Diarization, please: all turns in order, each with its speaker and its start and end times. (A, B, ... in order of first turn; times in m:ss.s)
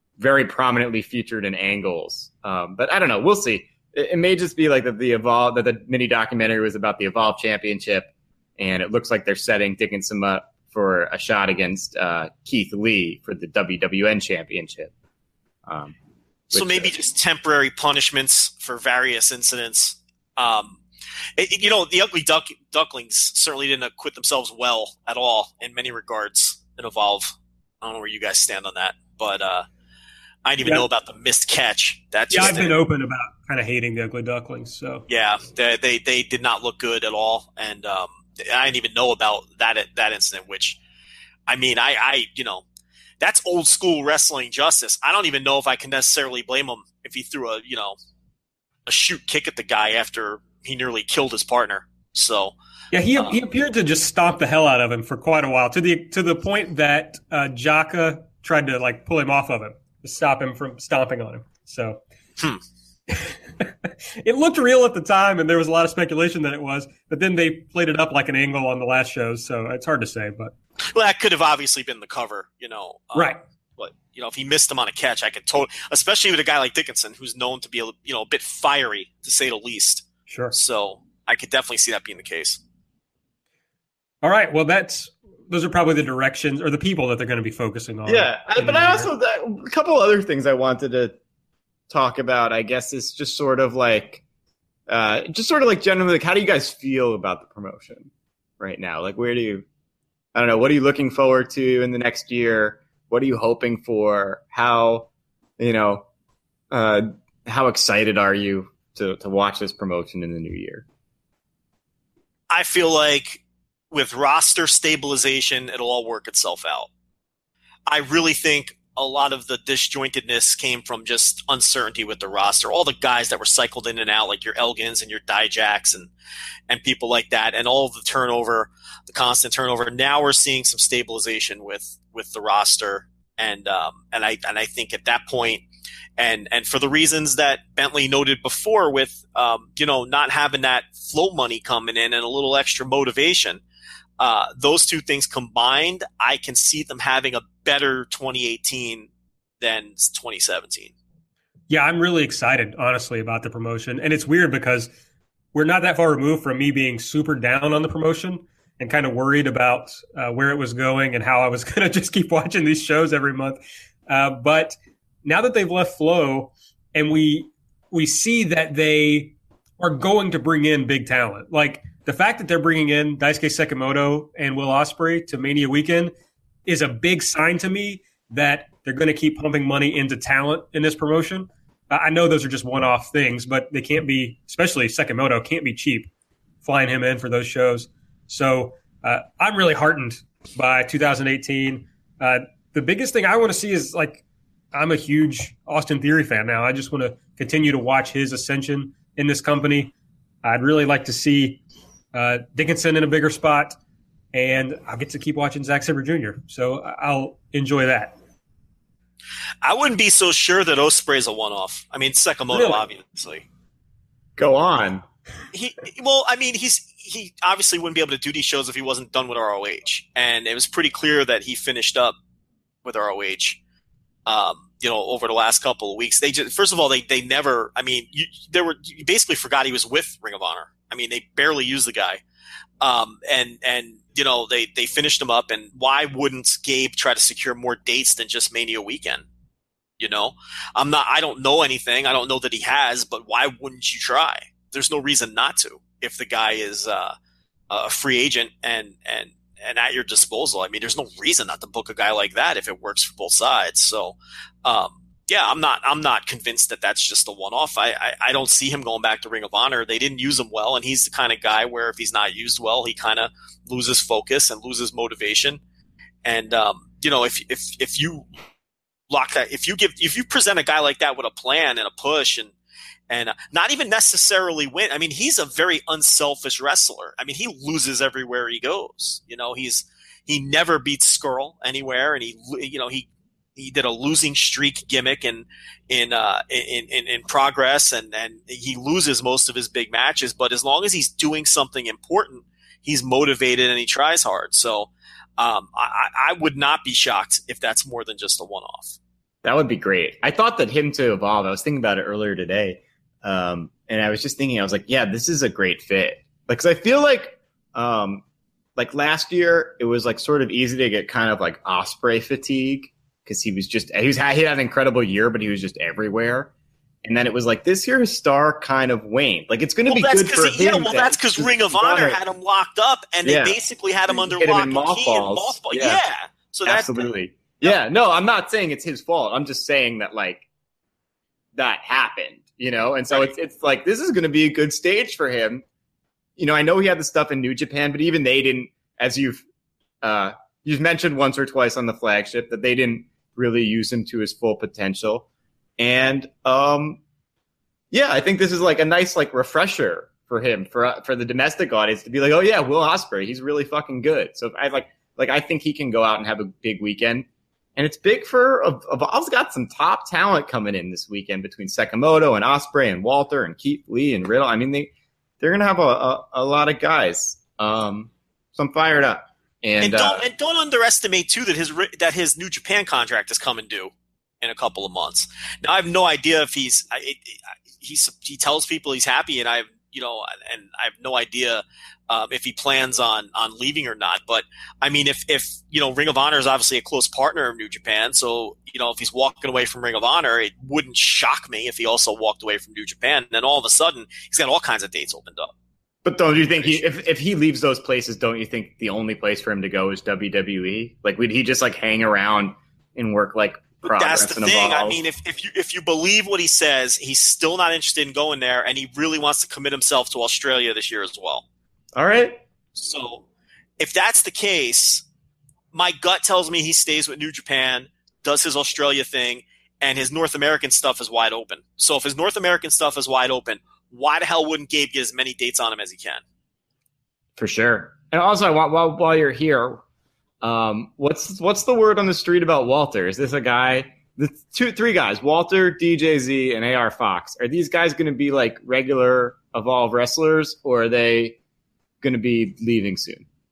0:00.2-0:14.9 A
0:15.7-0:16.0 A
0:16.5-0:16.9 A
0:16.5-0:20.8 B
0:21.4-0:29.7 B
0:30.4-0:32.7 B
0:32.3-0:35.0 C
0:35.1-0:40.8 B
0:41.5-0:42.6 B
0:43.2-0:48.0 B
0:48.9-0:52.6 B
0:52.9-1:02.0 C
1:03.1-1:10.5 C
1:10.9-1:22.6 B
1:13.2-1:13.4 C
1:20.3-1:20.6 C
1:24.2-1:29.1 C
1:28.1-1:31.2 A
1:31.9-1:34.2 A
1:34.9-1:39.6 A
1:40.4-1:46.0 A
1:46.7-1:50.8 A
1:52.5-1:56.9 B
1:57.9-2:06.1 B
2:06.7-2:15.6 B
2:16.2-2:23.6 B
2:24.2-2:29.1 B
2:29.6-2:30.9 B
2:31.7-2:34.9 C
2:35.5-2:56.1 C
2:56.7-3:06.1 C
3:06.6-3:21.6 C
3:22.1-3:23.8 C
3:24.3-3:28.2 C
3:29.6-3:33.4 B
3:32.5-3:32.8 C
3:34.4-3:35.0 A
3:35.5-3:42.2 B
3:42.8-3:43.6 B
3:44.3-3:52.2 B
3:52.8-3:59.2 B
4:00.0-4:07.2 B
4:07.7-4:25.6 B
4:26.2-4:28.3 B
4:29.1-4:32.5 B
4:33.1-4:59.0 B
4:59.4-5:08.2 A
5:08.8-5:16.5 A
5:17.0-5:22.2 A
5:19.9-5:27.1 B
5:23.2-5:23.6 A
5:24.1-5:26.0 A
5:26.7-5:30.4 A
5:31.6-5:35.6 A
5:36.4-5:39.4 A
5:40.0-5:45.3 A
5:45.8-5:47.0 A
5:47.9-5:57.3 A
5:57.8-6:10.2 A
6:09.8-6:35.5 B
6:36.0-6:45.0 A
6:43.8-6:51.4 B
6:52.0-6:52.4 A
6:52.8-6:53.2 B
6:53.8-6:55.0 B
6:55.7-7:06.2 B
7:07.4-7:09.8 A
7:10.4-7:21.4 A
7:22.0-7:23.3 A